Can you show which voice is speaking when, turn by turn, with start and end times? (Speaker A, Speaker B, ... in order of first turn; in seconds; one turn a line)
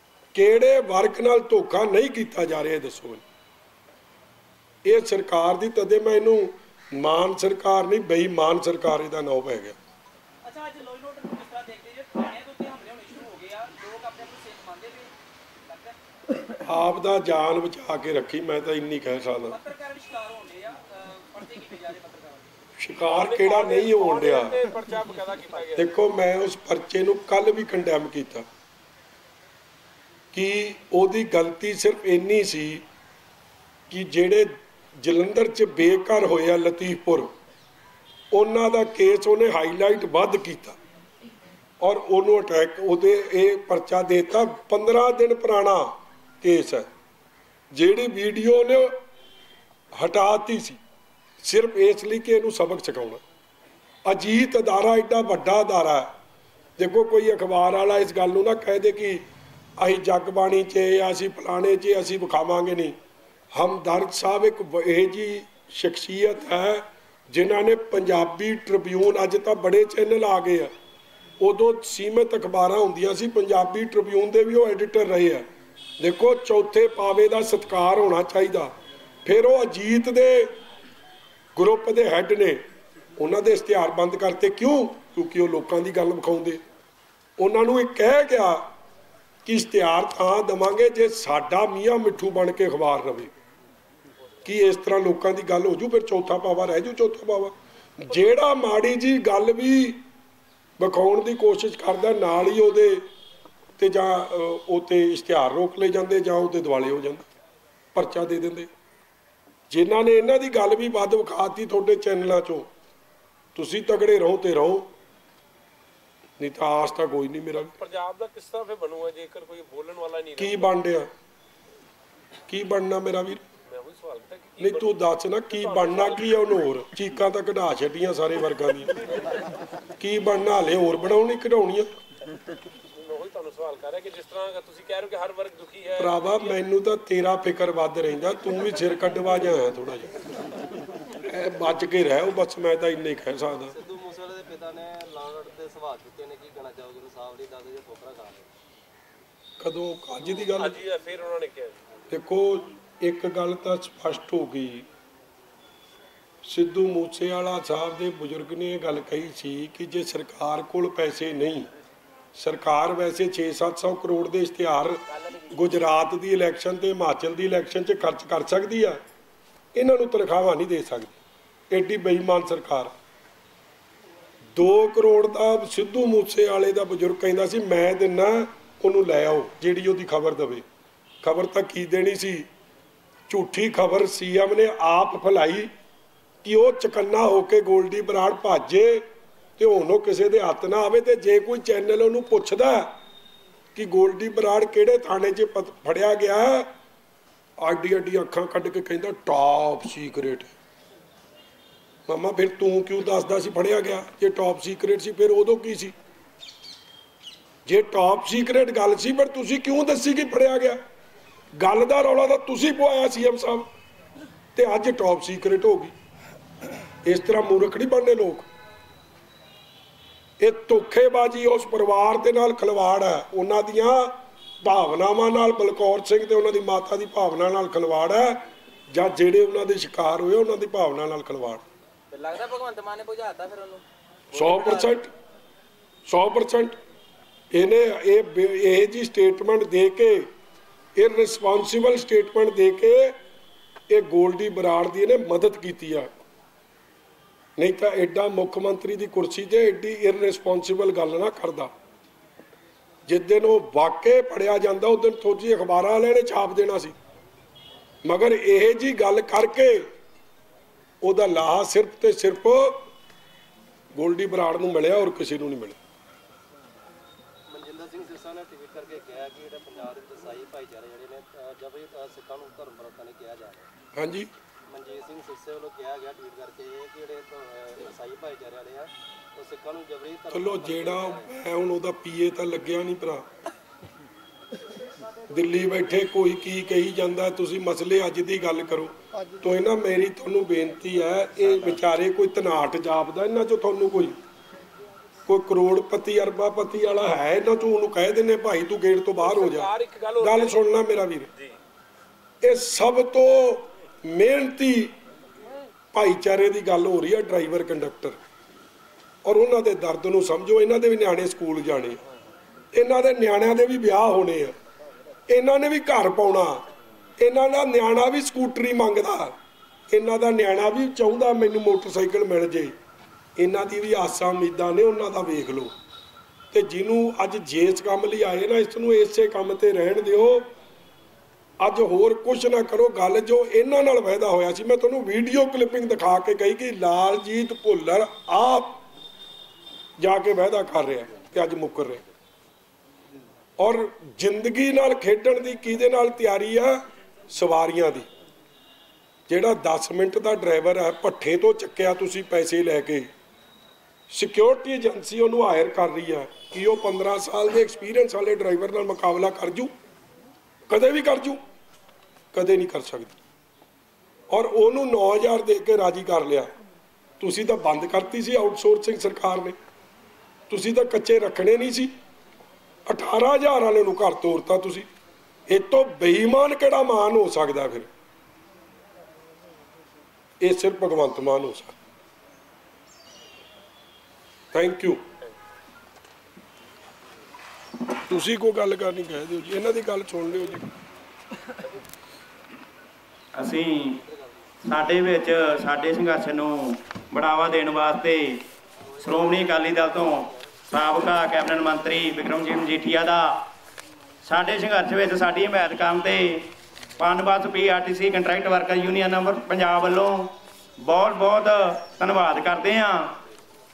Speaker A: 0.3-3.2
Speaker A: 4.8-9.8
Speaker B: 10.4-15.1
Speaker B: 15.7-16.0
Speaker A: 16.6-19.6
Speaker B: 19.5-22.5
Speaker A: 22.8-24.6
Speaker C: 23.0-25.9
Speaker A: 25.7-28.5
Speaker A: 30.3-32.8
Speaker A: 33.9-37.3
Speaker A: 38.3-40.8
Speaker A: 41.8-46.9
Speaker A: 47.7-49.0
Speaker A: 49.9-50.8
Speaker A: 51.4-53.2
Speaker A: 54.0-56.1
Speaker A: 56.8-59.2
Speaker A: 59.8-63.0
Speaker A: 63.5-70.7
Speaker A: 71.4-75.5
Speaker A: 76.0-78.7
Speaker A: 79.2-80.6
Speaker A: 81.5-82.6
Speaker A: 83.2-86.6
Speaker A: 87.4-88.7
Speaker A: 89.4-93.3
Speaker A: 94.4-100.0
Speaker A: 100.8-103.0
Speaker A: 103.8-107.2
Speaker A: 107.9-108.7
Speaker A: 109.7-112.7
Speaker A: 113.5-114.9
Speaker A: 116.4-117.7
Speaker C: 117.8-120.7
Speaker A: 120.4-121.1
Speaker A: 122.5-123.4
Speaker C: 123.7-126.5
Speaker A: 124.6-128.9
Speaker A: 130.0-131.9
Speaker C: 132.9-136.6
Speaker A: 136.0-140.1
Speaker A: 141.2-143.7
Speaker D: 143.7-148.5
Speaker A: 149.6-150.8
Speaker C: 150.4-151.8
Speaker A: 152.1-154.9
Speaker A: 156.4-161.7
Speaker A: 162.3-169.0
Speaker A: 169.7-171.2
Speaker A: 171.7-172.9
Speaker A: 174.5-180.6
Speaker A: 181.2-182.5
Speaker A: 183.3-185.7
Speaker A: 186.4-189.1
Speaker A: 189.6-193.0
Speaker A: 193.7-196.7
Speaker A: 197.6-200.5
Speaker A: 202.1-205.9
Speaker A: 207.7-210.8
Speaker A: 211.5-213.7
Speaker A: 214.5-215.9
Speaker A: 217.0-218.5
Speaker A: 220.4-231.6
Speaker B: 232.4-233.8
Speaker A: 234.3-235.1
Speaker A: 236.1-236.8
Speaker A: 237.5-240.3
Speaker A: 240.9-243.2
Speaker A: 243.9-246.1
Speaker A: 247.6-251.7
Speaker A: 253.1-257.0
Speaker A: 258.0-259.9
Speaker A: 261.0-262.9
Speaker A: 263.9-265.8
Speaker D: 267.5-273.7
Speaker A: 273.9-274.3
Speaker D: 274.7-281.3
Speaker A: 280.3-283.2
Speaker A: 285.3-294.2
Speaker A: 295.2-301.3
Speaker C: 299.2-300.6
Speaker A: 302.4-304.9
Speaker A: 305.9-308.2
Speaker A: 309.2-312.0
Speaker A: 312.7-314.6
Speaker A: 315.3-316.6
Speaker A: 317.2-319.4
Speaker A: 319.9-322.7
Speaker A: 323.4-325.7
Speaker A: 326.5-330.5
Speaker A: 331.6-338.8
Speaker A: 340.0-342.0
Speaker A: 343.6-348.1
Speaker A: 349.3-353.1
Speaker A: 354.1-359.7
Speaker A: 360.7-361.4
Speaker A: 362.3-363.1
Speaker A: 364.3-366.5
Speaker A: 367.2-369.6
Speaker A: 370.5-371.9
Speaker A: 372.9-374.9
Speaker A: 375.5-377.9
Speaker A: 380.4-381.8
Speaker A: 384.5-385.0
Speaker A: 388.1-390.7
Speaker E: 393.3-394.0
Speaker D: 393.9-394.4
Speaker E: 394.6-398.4
Speaker D: 398.9-400.3
Speaker E: 399.0-403.4
Speaker E: 404.2-413.2